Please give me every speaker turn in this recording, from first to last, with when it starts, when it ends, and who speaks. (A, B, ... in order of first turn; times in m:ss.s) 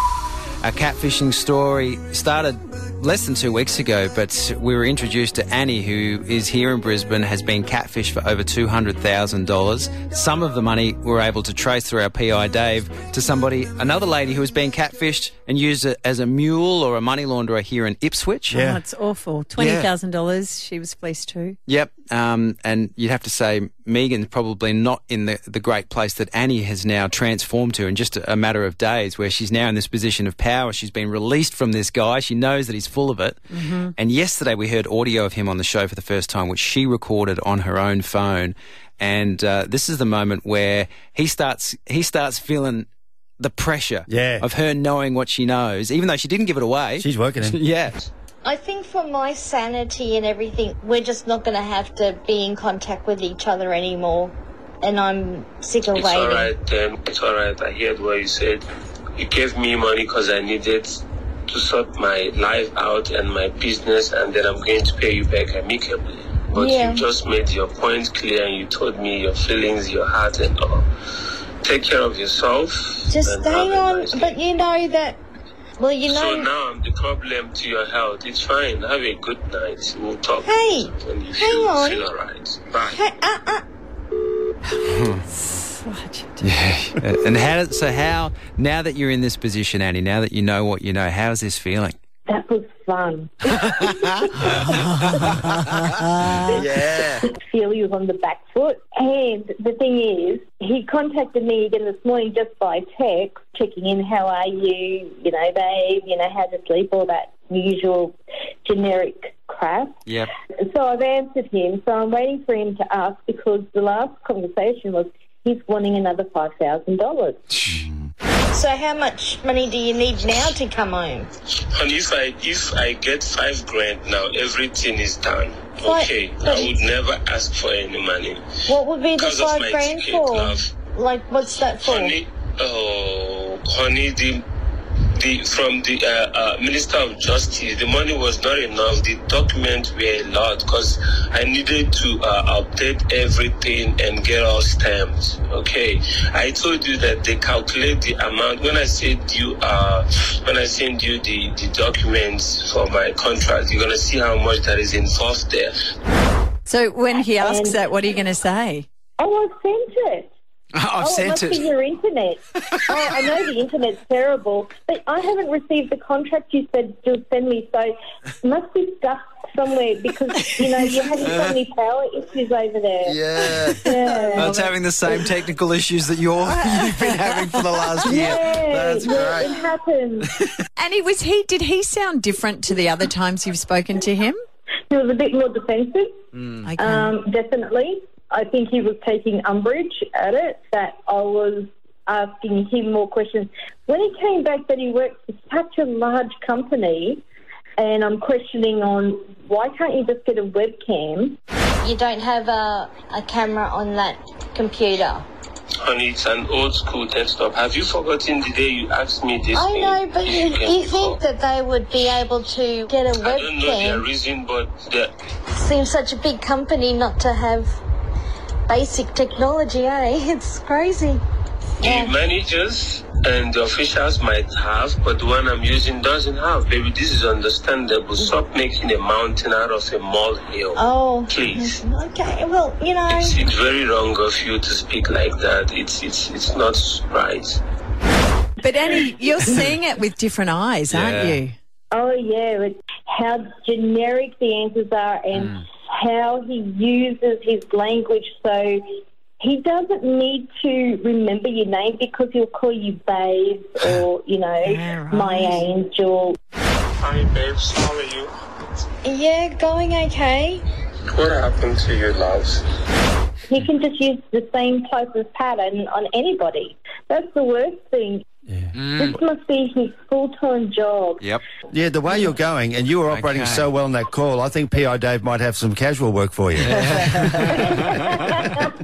0:00.6-0:18.6 A
0:18.5-0:18.8 B
0:18.5-0:21.6 C
0:19.6-0:19.9 A
0:21.7-0:33.4 A
0:33.6-0:33.9 C
0:34.0-0:42.9 A
0:43.4-0:48.1 A
0:44.1-0:44.4 B
0:47.0-0:47.6 B
0:48.4-0:56.5 D
0:55.9-0:58.6 E
0:59.2-1:10.8 E
1:06.5-1:07.0 D
1:11.6-1:14.4 E
1:13.1-1:15.2 D
1:15.8-1:16.5 D
1:16.1-1:23.0 E
1:20.4-1:22.0 D
1:22.9-1:23.6 D
1:24.7-1:25.2 A
1:25.3-1:26.4 C
1:26.4-1:32.0 A
1:32.3-1:33.3 F
1:33.5-1:34.3 A
1:36.3-1:50.0 F
1:36.5-1:37.2 B
1:50.7-1:57.4 F
1:57.6-1:57.8 A
1:58.5-2:01.3 D
2:01.7-2:08.4 E
2:05.8-2:06.8 D
2:08.7-2:12.2 D
2:09.1-2:10.7 E
2:11.8-2:14.4 E
2:15.1-2:35.7 E
2:36.6-2:38.8 C
2:37.4-2:37.8 F
2:39.2-2:40.3 F
2:40.7-2:41.7 A
2:41.0-2:42.4 F
2:42.6-2:43.2 A
2:42.9-2:53.1 F
2:51.2-2:51.5 A
2:53.0-2:54.0 B
2:53.9-2:54.7 F
2:54.3-2:58.5 A
2:56.6-2:57.4 C
2:58.0-3:00.3 F
2:58.6-2:59.5 B
3:00.8-3:04.4 C
3:04.9-3:06.1 F
3:06.6-3:07.2 C
3:06.8-3:17.2 F
3:17.8-3:21.4 F
3:21.8-3:25.2 D
3:25.8-3:31.2 E
3:29.5-3:34.0 D
3:33.2-3:35.1 E
3:35.5-3:37.8 D
3:38.7-3:41.2 D
3:41.8-3:51.8 E
3:41.8-3:42.1 D
3:50.8-3:53.4 D
3:53.1-3:57.6 E
3:58.6-4:01.5 C
4:00.9-4:01.4 A
4:01.9-4:08.8 F
4:09.4-4:16.4 F
4:14.6-4:15.6 C
4:17.0-4:18.3 E
4:19.0-4:20.6 D
4:21.1-4:22.6 E
4:23.5-4:28.2 F
4:28.7-4:29.2 A
4:29.0-4:31.2 F
4:31.7-4:37.5 B
4:33.1-4:33.7 A
4:36.6-4:37.9 A
4:37.8-4:38.4 F